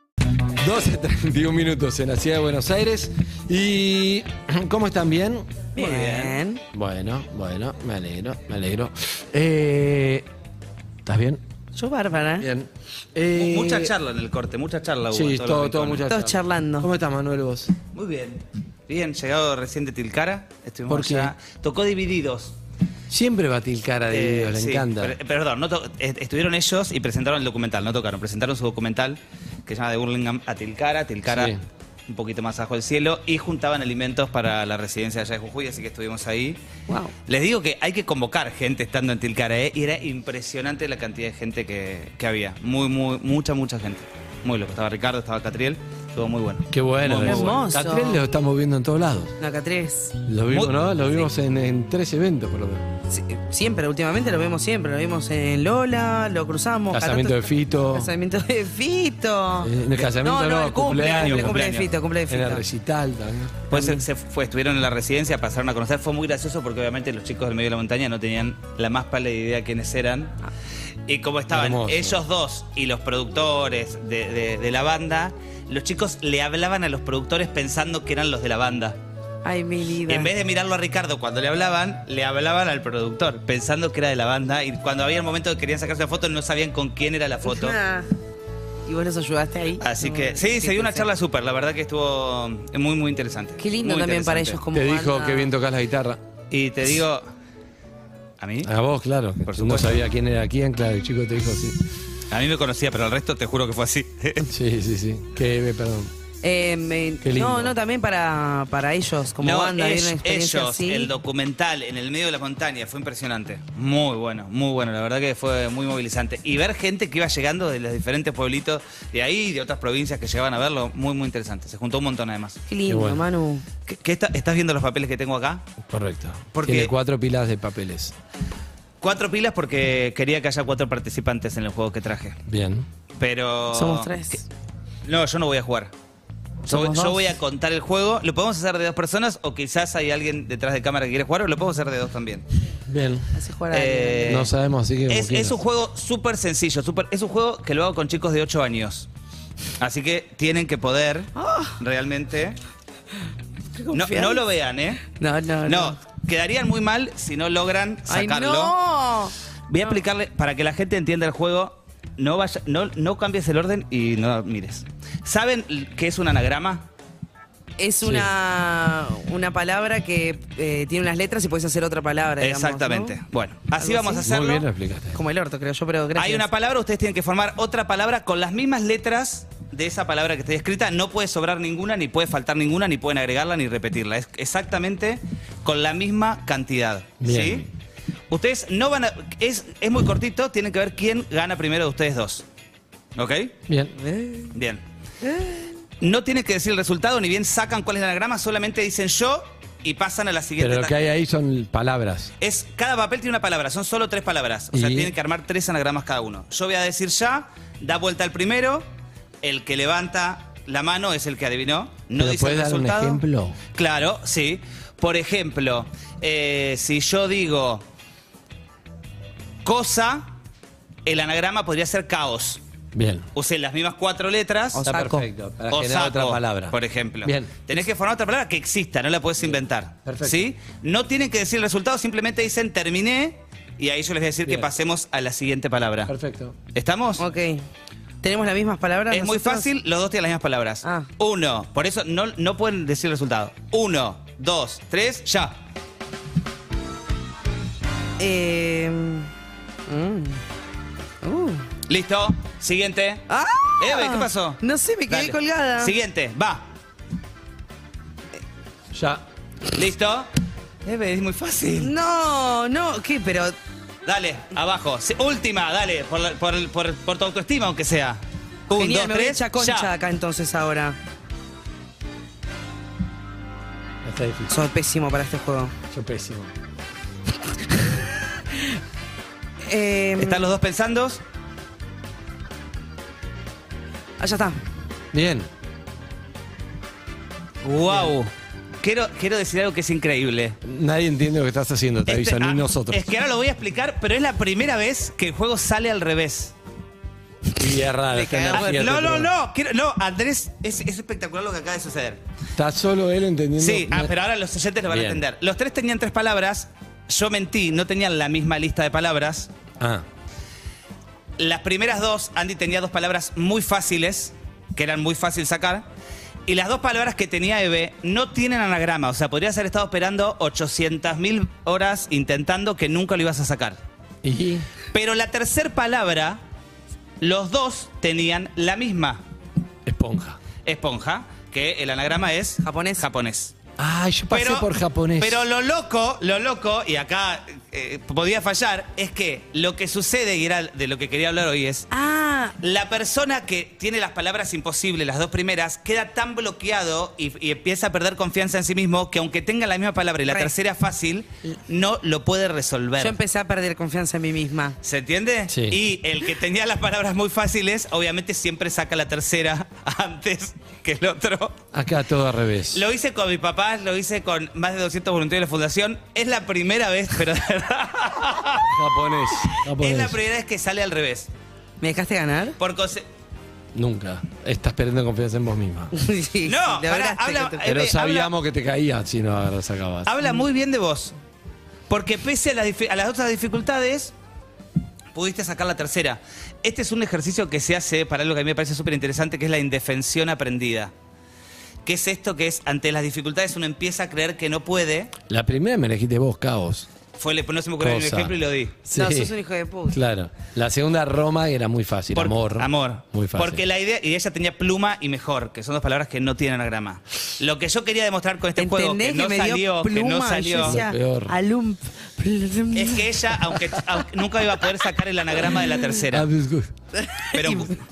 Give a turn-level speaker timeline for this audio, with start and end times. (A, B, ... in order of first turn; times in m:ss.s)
0:00.6-0:05.5 A
0:05.8-0:06.6 B
0:05.8-0:06.4 C
0:06.7-0:10.3 A
0:11.0-0:11.4 A
0:11.7-0:12.5 B
0:12.4-0:13.9 A
0:13.3-0:16.1 C
0:15.1-0:17.7 A
0:16.0-0:16.9 B
0:17.9-0:22.6 C
0:20.9-0:21.3 A
0:23.1-0:25.1 A
0:24.1-0:31.5 C
0:31.3-0:31.6 A
0:32.1-0:36.6 C
0:36.9-0:37.1 B
0:37.3-0:47.6 C
0:46.7-0:49.4 A
0:47.2-0:48.2 B
0:49.4-0:50.2 B
0:50.3-0:52.8 A
0:50.5-0:51.3 C
0:53.1-1:02.6 B
0:56.9-0:58.1 A
0:59.6-1:01.6 A
1:00.8-1:01.9 C
1:02.3-1:03.6 A
1:03.7-1:04.0 B
1:03.7-1:10.4 C
1:11.1-1:19.0 C
1:11.5-1:12.2 A
1:19.4-1:20.3 B
1:20.1-1:27.8 C
1:27.4-1:28.1 B
1:28.8-1:31.1 B
1:29.8-1:34.6 C
1:33.6-1:35.5 B
1:34.7-1:36.2 A
1:36.5-1:37.3 C
1:38.4-1:38.7 C
1:38.6-1:41.8 A
1:39.4-1:40.0 C
1:42.3-1:44.5 C
1:44.4-1:46.1 A
1:46.4-1:51.1 B
1:47.2-1:47.7 A
1:49.4-2:02.6 C
2:02.7-2:03.7 B
2:02.9-2:03.2 A
2:03.9-2:05.7 C
2:05.9-2:08.2 A
2:06.5-2:06.9 C
2:09.0-2:12.4 C
2:12.5-2:12.9 A
2:13.2-2:14.1 C
2:13.7-2:14.4 B
2:15.1-2:15.9 C
2:16.7-2:17.3 B
2:16.7-2:22.4 C
2:22.9-2:23.3 A
2:23.3-2:24.5 B
2:23.7-2:24.5 C
2:24.3-2:25.6 A
2:25.1-2:29.1 C
2:29.8-2:32.6 C
2:31.4-2:31.8 B
2:33.8-2:34.4 B
2:33.9-2:35.1 C
2:35.1-2:36.0 B
2:35.6-2:38.8 C
2:38.1-2:40.0 B
2:39.7-2:46.9 C
2:47.8-2:53.2 B
2:48.0-2:48.3 A
2:52.4-2:54.7 C
2:53.8-2:54.3 B
2:54.2-2:55.2 A
2:55.1-2:56.5 B
2:56.2-3:07.7 C
3:07.2-3:07.7 A
3:08.3-3:12.4 C
3:13.2-3:13.5 C
3:13.7-3:13.9 A
3:14.0-3:14.6 B
3:14.5-3:14.8 C
3:15.2-3:15.6 B
3:16.0-3:21.1 C
3:20.6-3:22.3 A
3:22.4-3:28.9 C
3:24.7-3:25.1 A
3:29.4-3:33.2 C
3:32.2-3:33.6 A
3:33.8-3:37.8 C
3:39.6-3:40.3 C
3:41.1-3:42.6 C
3:43.0-3:43.3 A
3:43.4-3:44.9 C
3:44.7-3:45.3 B
3:44.8-3:47.6 A
3:45.7-3:56.1 C
3:50.1-3:50.5 A
3:54.4-3:54.7 A
3:56.1-3:56.6 A
3:56.7-3:57.2 C
3:57.2-3:57.6 B
3:58.2-3:59.7 B
3:59.1-4:05.6 C
4:00.8-4:01.1 B
4:08.2-4:09.3 B
4:09.9-4:10.4 B
4:11.2-4:11.7 B
4:11.9-4:13.3 C
4:13.3-4:16.0 B
4:13.8-4:16.7 C
4:18.9-4:19.2 A
4:19.7-4:20.3 C
4:20.8-4:21.9 C
4:21.8-4:23.6 B
4:24.0-4:29.9 C
4:28.7-4:31.0 B
4:34.0-4:34.5 A
4:34.5-4:35.7 B
4:35.9-4:36.5 A
4:39.7-4:40.5 B
4:40.2-4:41.2 C
4:44.2-4:44.6 B
4:45.1-4:45.5 A
4:47.6-4:50.6 C
4:50.6-4:53.0 A
4:52.1-4:56.5 C
4:57.6-4:59.3 A
4:58.1-4:58.8 B
4:58.4-5:02.2 C
5:02.6-5:04.1 A
5:03.6-5:09.5 C
5:04.9-5:05.2 A
5:09.8-5:10.0 A
5:11.4-5:15.9 C
5:16.5-5:23.8 C
5:24.2-5:24.7 A
5:24.9-5:26.4 C
5:27.2-5:29.2 C
5:29.9-5:30.4 A
5:30.6-5:33.6 C
5:32.6-5:33.1 B
5:33.8-5:35.4 A
5:34.3-5:41.9 C
5:41.9-5:42.6 B
5:42.6-5:53.2 C
5:50.3-5:50.5 B
5:53.0-5:54.8 B
5:54.8-6:01.6 C
5:55.5-5:55.8 A
6:01.7-6:02.8 A
6:02.7-6:08.7 C
6:08.7-6:10.2 A
6:09.4-6:11.3 C
6:11.8-6:12.6 B
6:12.6-6:13.0 C
6:13.8-6:15.9 A
6:15.9-6:17.6 B
6:16.5-6:18.3 C
6:17.6-6:20.1 A
6:20.0-6:21.2 C
6:21.9-6:24.1 C
6:25.1-6:30.9 C
6:31.8-6:35.1 C
6:35.3-6:36.9 A
6:37.2-6:38.8 C
6:37.8-6:39.3 A
6:38.9-6:40.0 B
6:39.9-6:43.6 A
6:42.1-6:50.8 C
6:48.6-6:53.6 B
6:50.6-6:51.4 A
6:52.7-6:56.3 C
6:56.1-6:56.7 A
6:57.0-6:57.7 B
6:57.3-6:57.8 C